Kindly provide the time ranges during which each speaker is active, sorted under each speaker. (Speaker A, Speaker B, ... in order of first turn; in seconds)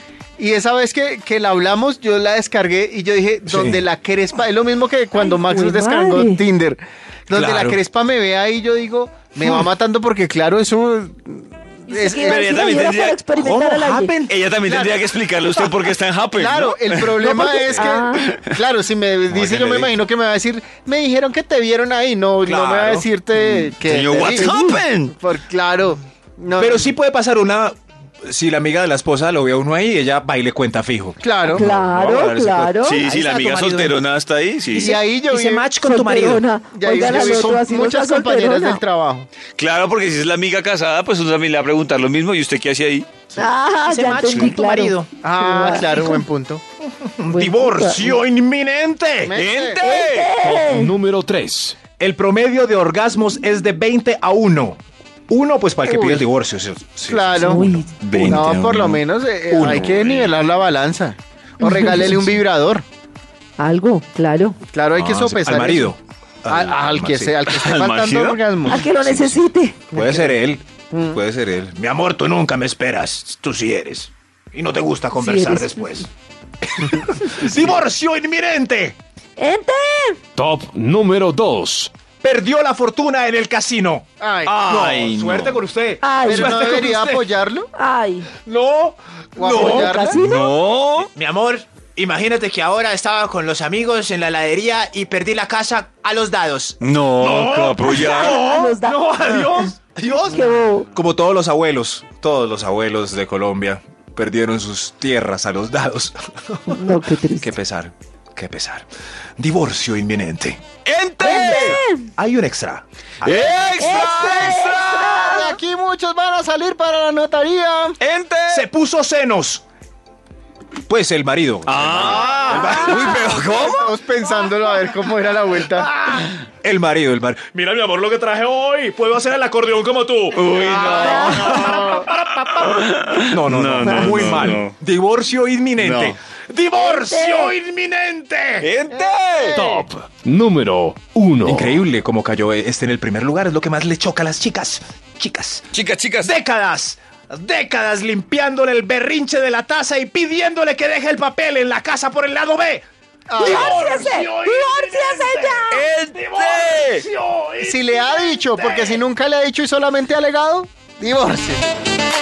Speaker A: 0.4-12.6, 14.7-15.1, 16.3-26.9, 31.2-31.6, 34.8-35.7, 36.7-39.3, 45.2-46.6, 49.2-49.9, 55.9-56.3, 57.1-62.9, 64.7-66.0, 66.5-68.8, 69.9-70.4, 70.9-71.2, 84.2-84.6, 86.2-87.7, 89.4-90.2, 115.2-118.0, 122.2-125.9, 130.6-132.1, 139.5-139.8, 153.3-154.1, 157.6-161.7
Speaker B: 3.5-3.8, 7.3-7.8, 9.4-9.7, 13.4-14.4, 19.3-19.9, 22.4-23.7, 26.5-34.1, 34.7-36.5, 37.0-37.6, 43.8-45.1, 46.8-49.4, 52.0-57.9, 59.5-60.4, 64.9-67.4, 68.9-76.1, 76.7-79.0, 82.2-84.1, 84.6-87.3, 88.4-108.9, 109.4-110.6, 111.2-114.7, 118.5-119.7, 120.9-123.4, 125.8-132.1, 133.3-138.7, 141.4-152.8, 153.4-159.0
Speaker C: 5.2-6.4, 11.9-14.1, 17.2-18.2, 24.5-24.8, 31.5-33.1, 35.7-38.8, 43.4-46.2, 47.3-48.2, 49.8-50.9, 57.4-58.0, 61.6-62.2, 63.6-64.6, 68.7-69.8, 75.1-76.0, 79.4-80.2, 86.0-86.7, 87.8-88.3, 89.5-90.5, 98.1-99.7, 100.3-100.9, 106.7-107.5, 111.2-112.1, 113.7-115.6, 122.5-123.3, 130.9-131.6, 133.8-134.6, 136.8-137.6, 153.4-155.8
Speaker D: 12.2-13.3, 14.3-17.2, 23.9-25.1, 32.8-35.0, 39.6-43.2, 49.3-50.3, 58.0-59.0, 67.5-68.4, 84.5-85.6, 90.2-91.1, 96.8-98.5, 110.8-111.8, 113.2-115.3, 118.0-118.7, 121.7-123.9, 130.3-134.8, 135.8-136.2, 138.6-139.6, 145.7-146.3, 155.7-157.1
Speaker E: 50.4-51.8, 80.4-81.9, 139.5-141.8